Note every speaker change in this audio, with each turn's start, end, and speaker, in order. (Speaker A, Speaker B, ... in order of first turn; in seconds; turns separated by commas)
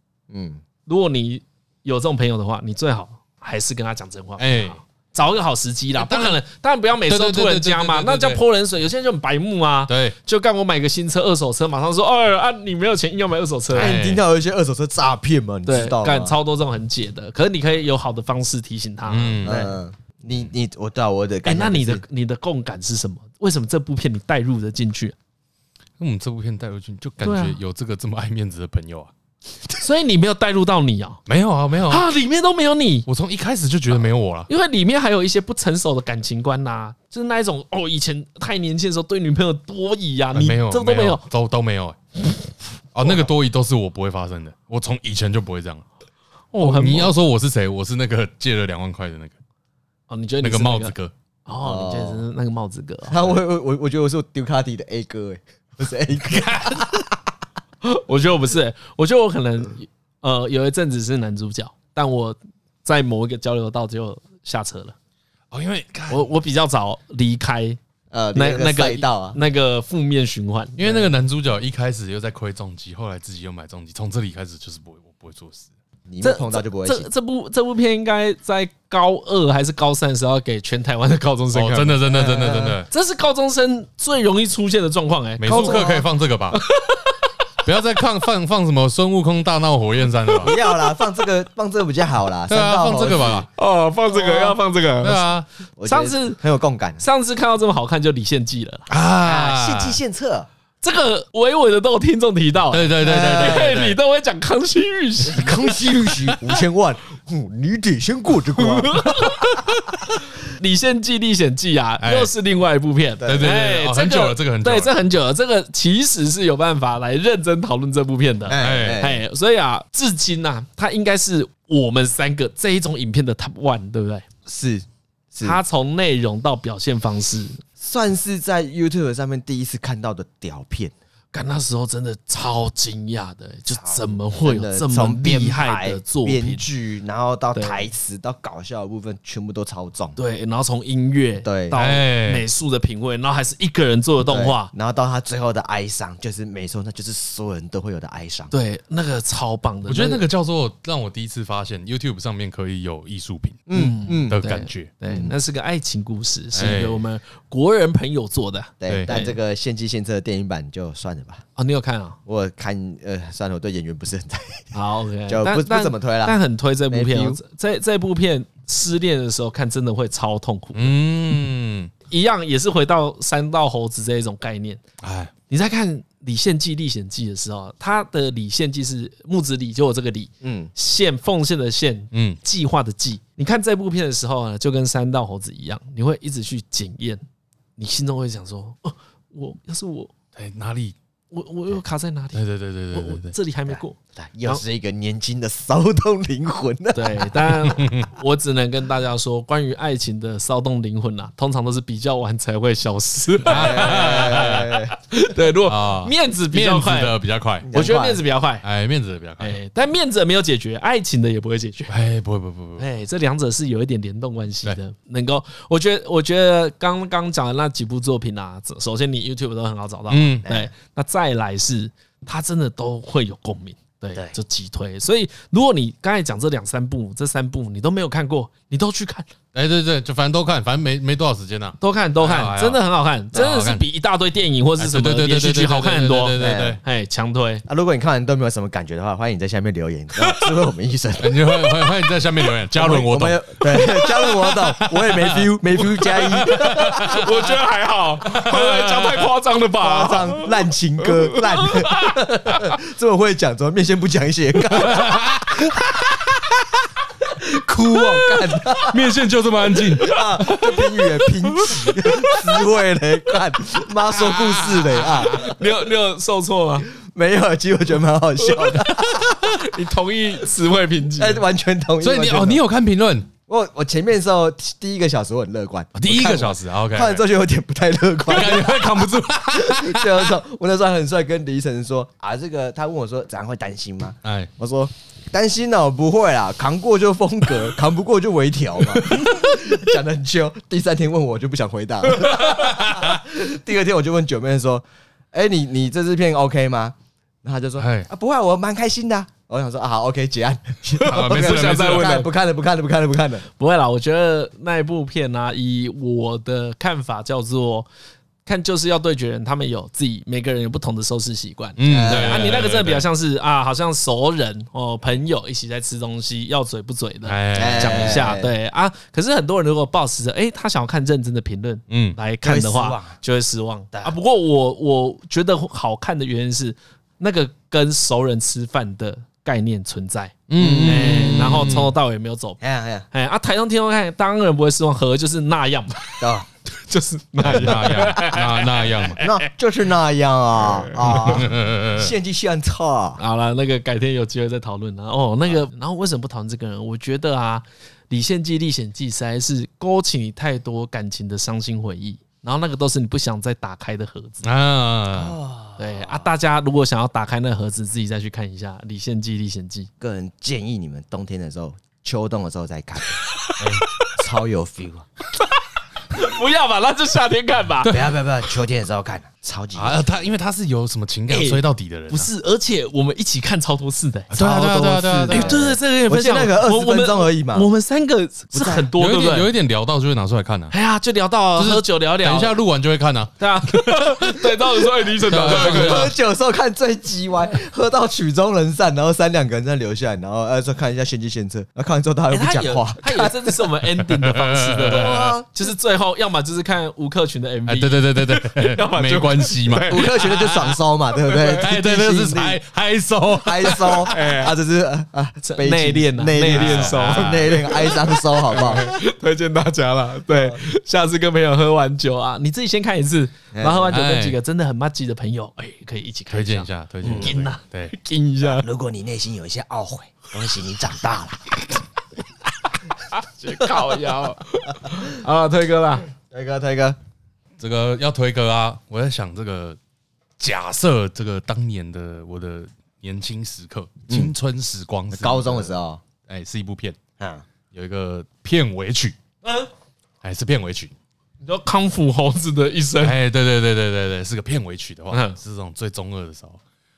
Speaker A: 0.3-0.6, Speaker B: 0.8-14.0, Speaker C: 4.4-4.8, Speaker C: 6.0-6.4, Speaker C: 7.1-8.4, Speaker C: 9.9-10.2, Speaker A: 13.7-16.4, Speaker C: 13.7-14.2, Speaker B: 15.7-19.8, Speaker C: 19.1-19.6, Speaker A: 19.4-22.0, Speaker B: 21.4-25.1, Speaker C: 26.0-29.1, Speaker B: 27.2-27.6, Speaker B: 29.8-31.2, Speaker C: 31.3-32.0, Speaker B: 31.9-33.0, Speaker C: 33.0-34.5, Speaker B: 33.9-41.2, Speaker C: 40.3-42.0, Speaker C: 42.9-45.8, Speaker B: 46.5-47.1, Speaker C: 46.6-49.3, Speaker B: 50.1-50.9, Speaker C: 50.4-51.1, Speaker B: 51.5-53.4, Speaker A: 51.6-52.2, Speaker A: 53.1-57.2, Speaker C: 56.3-56.8, Speaker B: 57.8-64.9, Speaker C: 65.5-66.3, Speaker B: 66.1-67.8, Speaker A: 68.1-69.4, Speaker B: 68.3-71.1, Speaker C: 70.8-75.7, Speaker A: 76.1-77.1, Speaker B: 76.2-82.0, Speaker C: 81.5-82.9, Speaker A: 82.1-82.8, Speaker B: 82.9-85.9, Speaker C: 85.4-86.6, Speaker A: 85.5-86.1, Speaker B: 86.5-87.3, Speaker C: 87.6-90.5, Speaker A: 90.4-93.4, Speaker C: 92.5-93.5, Speaker B: 93.5-95.2, Speaker C: 95.0-95.5, Speaker A: 95.8-97.0, Speaker B: 95.8-96.4, Speaker B: 97.0-98.9, Speaker C: 98.9-100.0, Speaker A: 99.2-100.5, Speaker B: 100.8-106.3, Speaker C: 102.7-104.0, Speaker A: 103.0-103.7, Speaker A: 105.2-109.5, Speaker B: 108.6-124.2, Speaker C: 112.0-112.3, Speaker A: 113.2-113.5, Speaker C: 113.2-114.9, Speaker A: 118.5-119.2, Speaker C: 118.5-119.0, Speaker A: 124.5-125.6, Speaker B: 125.4-127.6, Speaker A: 127.8-130.9, Speaker B: 131.3-136.6, Speaker A: 133.7-140.2, Speaker B: 137.5-137.9, Speaker B: 140.2-144.7, Speaker A: 141.4-141.8, Speaker C: 141.7-142.4, Speaker A: 144.3-148.5, Speaker B: 148.5-150.2, Speaker C: 149.9-153.7, Speaker A: 153.7-154.4, Speaker B: 153.7-159.4, Speaker C: 154.3-154.9, Speaker C: 156.5-157.0, Speaker A: 158.8-161.4, Speaker C: 158.8-159.1, Speaker B: 161.6-162.2, Speaker A: 162.2-164.8, Speaker B: 164.7-170.9, Speaker A: 165.3-166.4, Speaker A: 166.9-167.4, Speaker C: 170.7-171.9, Speaker B: 172.1-174.8, Speaker C: 175.0-175.3, Speaker B: 175.5-187.2, Speaker A: 180.4-180.7, Speaker C: 182.1-182.4, Speaker B: 187.8-190.1, Speaker C: 190.3-190.9, Speaker B: 191.3-194.6, Speaker C: 192.3-193.3, Speaker A: 193.7-197.3, Speaker B: 196.9-207.2, Speaker C: 197.6-198.1, Speaker C: 203.4-204.7, Speaker A: 203.5-204.9, Speaker C: 205.6-207.7, Speaker A: 207.6-208.2, Speaker B: 207.7-208.6, Speaker C: 208.6-209.6, Speaker B: 209.4-211.9, Speaker C: 211.9-212.8, Speaker B: 212.8-229.3, Speaker C: 220.1-220.5, Speaker A: 220.4-220.7, Speaker C: 229.5-233.8, Speaker B: 231.8-237.6, Speaker C: 234.8-236.8, Speaker A: 236.4-236.8, Speaker A: 237.7-241.7, Speaker C: 241.2-247.3, Speaker A: 242.7-247.3, Speaker B: 246.4-252.8, Speaker C: 248.3-249.3, Speaker A: 249.8-255.7, Speaker C: 254.7-256.5, Speaker A: 257.3-259.1, Speaker C: 258.8-260.2, Speaker B: 260.0-262.4, Speaker A: 260.0-265.5, Speaker C: 264.1-265.5, Speaker B: 265.2-266.9, Speaker A: 266.9-269.4, Speaker B: 268.5-271.4, Speaker C: 268.8-269.2, Speaker A: 271.2-272.6, Speaker C: 272.0-273.3, Speaker A: 273.5-303.4, Speaker C: 275.9-277.2, Speaker C: 278.2-280.3, Speaker C: 284.2-284.5, Speaker C: 288.9-289.6, Speaker C: 292.2-293.2, Speaker C: 297.8-298.1, Speaker B: 301.0-302.3, Speaker C: 301.0-302.2, Speaker B: 303.6-307.9, Speaker B: 308.4-332.6, Speaker C: 311.8-313.1, Speaker A: 311.9-312.6, Speaker C: 317.2-318.3, Speaker A: 317.5-318.5, Speaker C: 321.9-322.2, Speaker A: 322.4-323.2, Speaker C: 330.5-331.9, Speaker A: 330.6-331.6, Speaker A: 332.6-333.1, Speaker B: 333.1-339.5, Speaker A: 336.2-336.5, Speaker C: 337.4-339.2, Speaker A: 337.5-338.2, Speaker A: 339.2-343.2, Speaker B: 340.6-341.5, Speaker C: 341.1-342.1, Speaker B: 343.2-354.5, Speaker C: 354.4-355.4, Speaker A: 355.1-356.3, Speaker B: 355.8-359.9, Speaker A: 360.0-363.2, Speaker B: 363.2-364.1, Speaker C: 363.6-363.9, Speaker A: 364.1-365.1, Speaker B: 366.1-368.0, Speaker C: 367.8-368.1, Speaker A: 367.9-370.0, Speaker C: 369.7-372.3, Speaker B: 371.3-379.5, Speaker C: 374.3-375.6, Speaker A: 374.4-377.7, Speaker A: 378.5-378.9, Speaker C: 379.0-380.7, Speaker B: 380.7-382.5, Speaker C: 381.6-384.5, Speaker B: 383.4-386.1, Speaker C: 385.2-386.1, Speaker A: 385.3-393.6, Speaker B: 392.3-400.4, Speaker C: 393.9-395.4, Speaker A: 394.8-395.5, Speaker C: 397.7-400.8, Speaker A: 399.9-402.6, Speaker B: 401.3-401.6, Speaker C: 401.5-404.2, Speaker A: 403.3-408.9, Speaker B: 404.0-404.5, Speaker B: 405.4-418.7, Speaker C: 406.4-407.6, Speaker A: 410.3-410.6, Speaker A: 413.5-414.0, Speaker C: 413.9-414.4, Speaker C: 416.3-417.9, Speaker A: 417.0-417.3, Speaker A: 418.5-421.8, Speaker B: 423.1-426.1, Speaker A: 426.2-427.0, Speaker C: 427.6-429.8, Speaker C: 430.4-435.7, Speaker A: 435.1-436.0, Speaker C: 436.3-437.0, Speaker A: 437.2-437.4, Speaker C: 437.7-439.2, Speaker B: 439.4-439.7, Speaker C: 440.2-440.9, Speaker B: 441.4-443.1, Speaker C: 443.0-446.6, Speaker B: 445.1-445.4